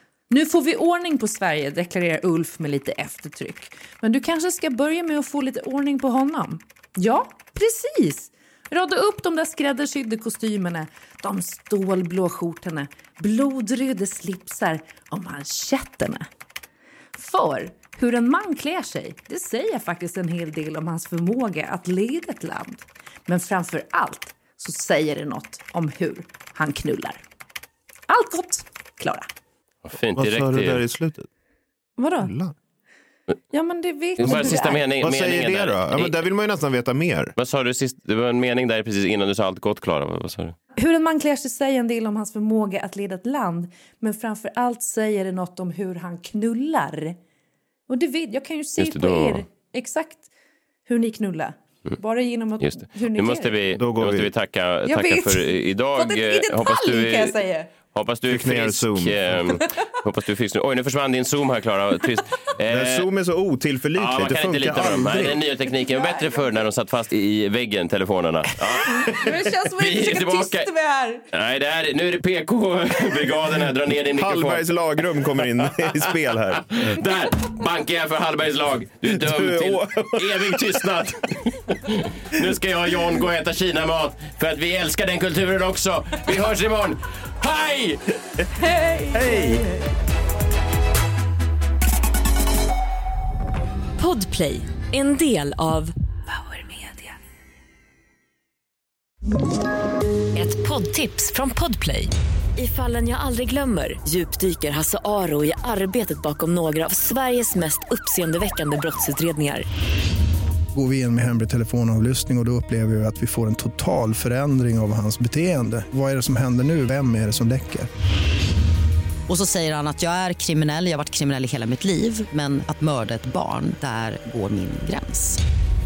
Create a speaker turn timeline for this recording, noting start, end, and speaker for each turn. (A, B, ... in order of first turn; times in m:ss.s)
0:00.3-0:16.3 A
0:17.2-0:27.2 A
0:28.1-0:29.3 A
0:29.9-0:30.8 B
0:30.1-0:31.3 C
0:32.0-0:32.3 A
0:32.2-0:32.5 C
0:33.5-0:34.9 A
0:34.2-0:36.2 B
0:34.2-0:37.3 C
0:37.4-0:40.6 B
0:40.8-0:47.2 A
0:47.9-0:50.3 A
0:48.8-0:49.4 B
0:50.9-0:53.6 A
0:52.6-0:57.4 B
0:53.8-0:54.3 C
0:54.9-0:57.7 A
0:57.9-1:03.1 B
0:58.3-0:59.6 C
1:02.7-1:05.4 C
1:04.0-1:10.7 B
1:05.8-1:06.6 A
1:08.8-1:11.2 A
1:11.3-1:14.7 B
1:14.2-1:16.7 C
1:16.7-1:28.0 B
1:19.1-1:20.9 C
1:28.6-1:29.8 A
1:29.1-1:29.6 C
1:34.0-1:35.9 D
1:36.7-1:37.1 A
1:40.4-1:49.7 D
1:50.7-1:57.9 E
1:59.3-2:05.4 F